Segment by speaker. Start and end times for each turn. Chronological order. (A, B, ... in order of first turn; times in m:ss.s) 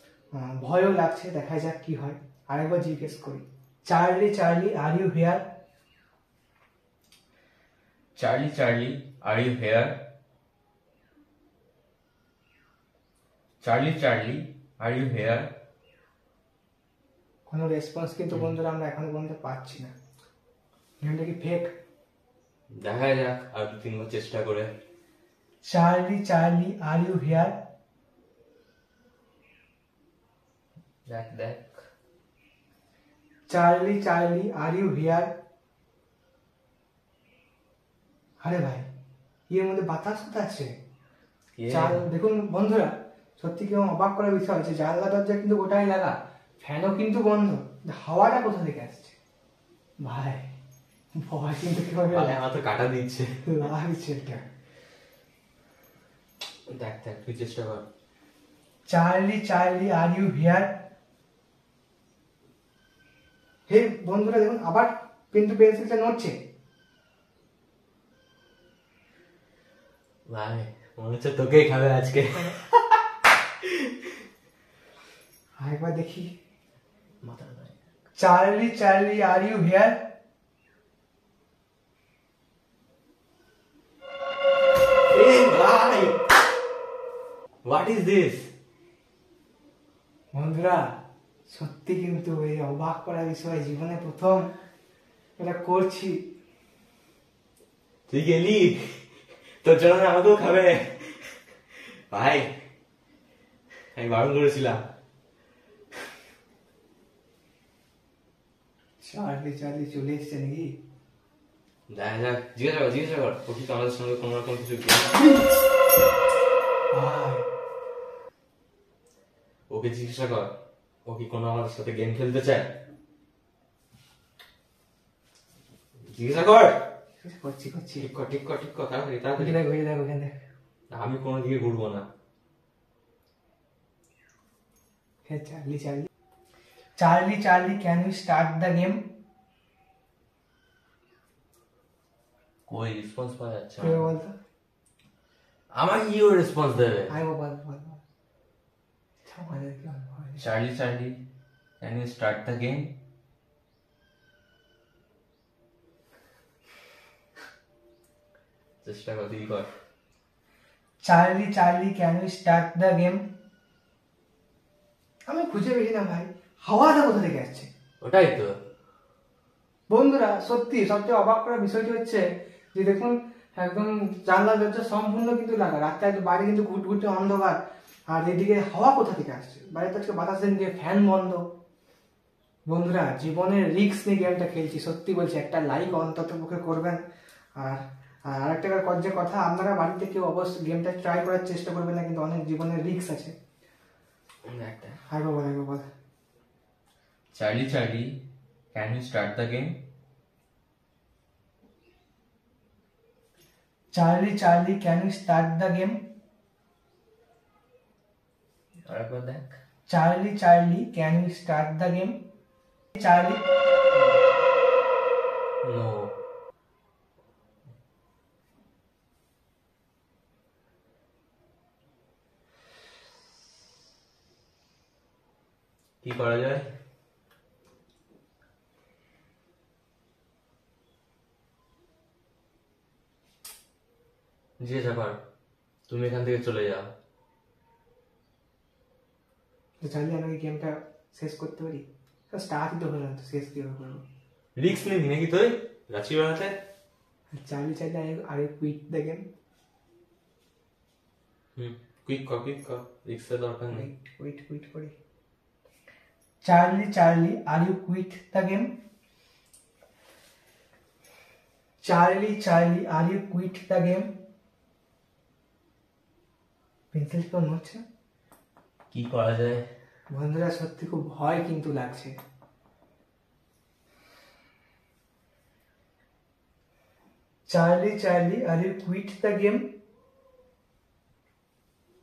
0:00.3-0:05.4 A
0:08.2-0:10.0 B
0:13.6-0:15.5 B
0:17.5-0:19.9 A
0:21.0-0:21.7 A
0:22.7-0:24.7 B
0:25.6-0:27.6 A
0:31.1-0:31.8 B
0:33.5-0:35.3 A
0:38.4-0:38.9 A
0:39.5-0:40.7 A
0:41.6-0:42.0 B
0:41.7-0:49.2 A
0:50.0-0:50.5 A
0:51.2-0:52.4 A
0:52.1-0:53.4 B
0:53.4-0:54.4 A
0:56.7-0:57.8 B
0:58.9-1:00.8 A
1:03.7-1:06.4 A
1:10.3-1:13.0 B
1:13.6-1:14.1 B
1:15.6-1:16.3 A
1:17.2-1:17.8 B
1:18.2-1:20.0 A
1:25.1-1:26.2 B
1:27.6-1:28.5 B
1:30.3-1:30.9 A
1:31.5-1:34.5 A
1:35.4-1:36.2 A
1:38.1-1:42.5 B
1:43.9-1:44.8 B
1:49.0-1:50.8 A
1:51.9-1:55.2 B
1:56.9-1:57.4 A
1:59.7-2:00.5 B
2:01.1-2:02.7 B
2:06.1-2:06.8 B
2:07.2-2:08.1 A
2:08.0-2:09.6 B
2:09.4-2:10.4 A
2:10.9-2:12.0 B
2:15.2-2:16.1 A
2:17.0-2:19.0 A
2:22.7-2:24.1 B
2:23.8-2:24.3 A
2:25.8-2:27.2 B
2:27.1-2:28.0 A
2:29.2-2:30.4 A
2:30.4-2:31.2 B
2:31.8-2:32.9 B
2:38.8-2:39.7 B
2:41.0-2:43.2 A
2:45.3-2:47.7 A
2:48.0-2:48.5 B
2:49.9-2:57.6 A
2:58.1-3:01.4 A
3:02.7-3:07.0 A
3:07.6-3:13.3 A
3:14.5-3:15.0 B
3:15.1-3:15.9 A
3:17.3-3:18.2 B
3:18.7-3:19.8 B
3:23.9-3:26.0 A
3:28.9-3:29.6 B
3:29.9-3:32.2 A
3:33.0-3:33.4 A
3:35.6-3:36.2 B
3:46.0-3:46.7 B
3:54.6-3:55.2 B
3:55.9-3:56.9 B
3:59.8-4:04.0 A
4:04.6-4:06.6 B
4:07.3-4:09.2 A
4:11.6-4:13.8 B
4:13.7-4:15.0 A
4:16.4-4:18.8 A
4:21.8-4:24.1 A
4:26.9-4:27.8 A
4:28.9-4:29.7 B
4:30.1-4:32.2 A
4:37.5-4:39.7 A